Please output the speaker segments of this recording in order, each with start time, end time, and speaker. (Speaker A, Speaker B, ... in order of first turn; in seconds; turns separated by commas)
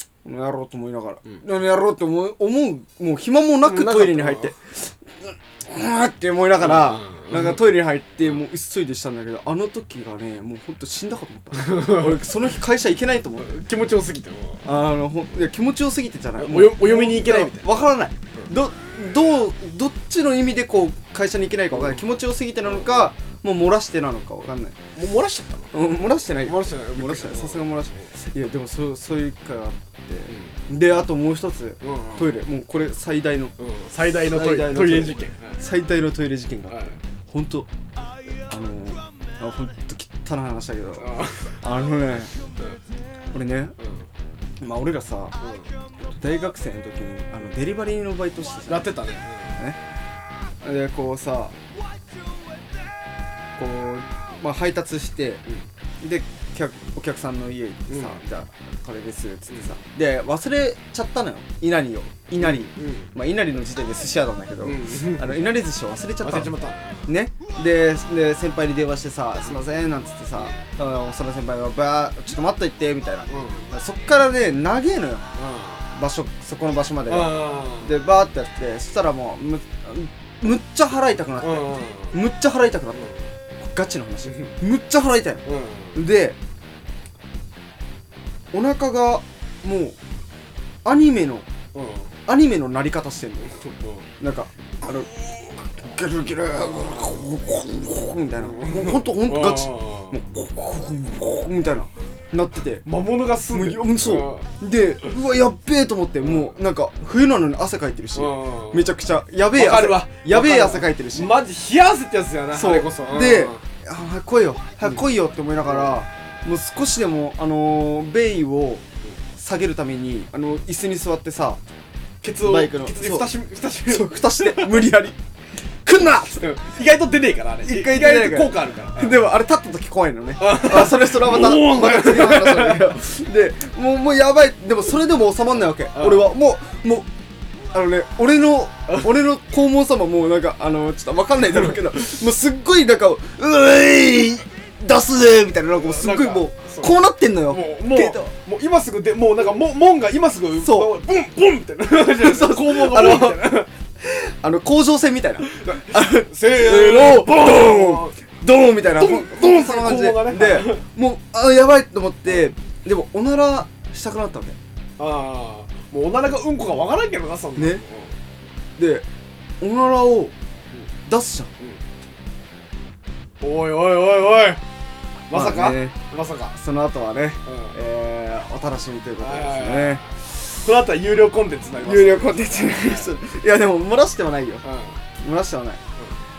Speaker A: 0.2-13.6, Speaker B: 3.6-4.5, Speaker B: 6.6-7.6, Speaker B: 11.5-12.3, Speaker B: 13.4-14.7, Speaker A: 14.6-24.8, Speaker B: 16.4-18.5, Speaker B: 21.7-22.1, Speaker B: 22.6-23.1, Speaker B: 24.9-28.1, Speaker A: 25.7-33.5, Speaker B: 30.3-30.6, Speaker B: 31.8-32.4, Speaker B: 33.6-35.6, Speaker A: 34.2-37.7, Speaker B: 36.7-37.0, Speaker A: 38.5-42.3, Speaker B: 41.0-41.9, Speaker A: 43.3-43.8, Speaker B: 43.8-44.0, Speaker A: 44.6-45.4, Speaker B: 45.4-45.7, Speaker A: 46.1-48.9, Speaker B: 48.7-49.6, Speaker A: 50.6-51.5, Speaker A: 53.5-55.4, Speaker A: 56.0-66.5, Speaker B: 57.9-58.2, Speaker B: 59.5-59.7, Speaker B: 62.4-63.1, Speaker B: 64.6-65.4, Speaker B: 66.2-67.1, Speaker A: 67.0-75.2, Speaker B: 70.3-70.7, Speaker B: 73.3-73.7, Speaker B: 75.3-75.8, Speaker A: 75.9-83.0, Speaker B: 77.1-78.1, Speaker B: 81.4-82.2, Speaker B: 82.9-83.2, Speaker A: 83.6-85.4, Speaker B: 84.2-84.6, Speaker B: 85.4-86.0, Speaker A: 85.9-86.4, Speaker A: 88.5-90.0, Speaker A: 90.8-91.5, Speaker B: 91.7-92.1, Speaker A: 92.3-93.5, Speaker B: 93.5-94.0, Speaker A: 94.2-102.8, Speaker B: 96.5-97.3, Speaker B: 98.4-100.2, Speaker B: 102.8-104.5, Speaker A: 103.5-111.4, Speaker B: 106.2-106.6, Speaker B: 108.1-108.9, Speaker B: 109.5-113.6, Speaker A: 112.5-118.8, Speaker B: 115.6-116.0, Speaker A: 119.4-121.6, Speaker B: 122.2-124.9, Speaker A: 122.4-123.3, Speaker A: 123.8-125.2, Speaker A: 125.8-126.5, Speaker B: 126.3-129.2, Speaker A: 127.6-137.1, Speaker B: 130.4-133.0, Speaker B: 135.9-136.3, Speaker A: 137.7-148.3, Speaker B: 145.7-153.7, Speaker A: 150.6-151.0, Speaker A: 151.9-164.6, Speaker B: 155.4-158.2, Speaker B: 158.9-160.8, Speaker B: 165.0-168.2, Speaker A: 167.6-167.8, Speaker A: 168.8-169.0, Speaker A: 169.6-170.3, Speaker A: 171.1-171.5, Speaker B: 173.4-174.6, Speaker B: 175.3-176.6, Speaker A: 175.3-175.9, Speaker A: 176.5-180.1, Speaker B: 177.4-177.8, Speaker B: 179.2-183.2, Speaker A: 181.8-184.6, Speaker B: 184.6-185.0, Speaker A: 185.2-185.8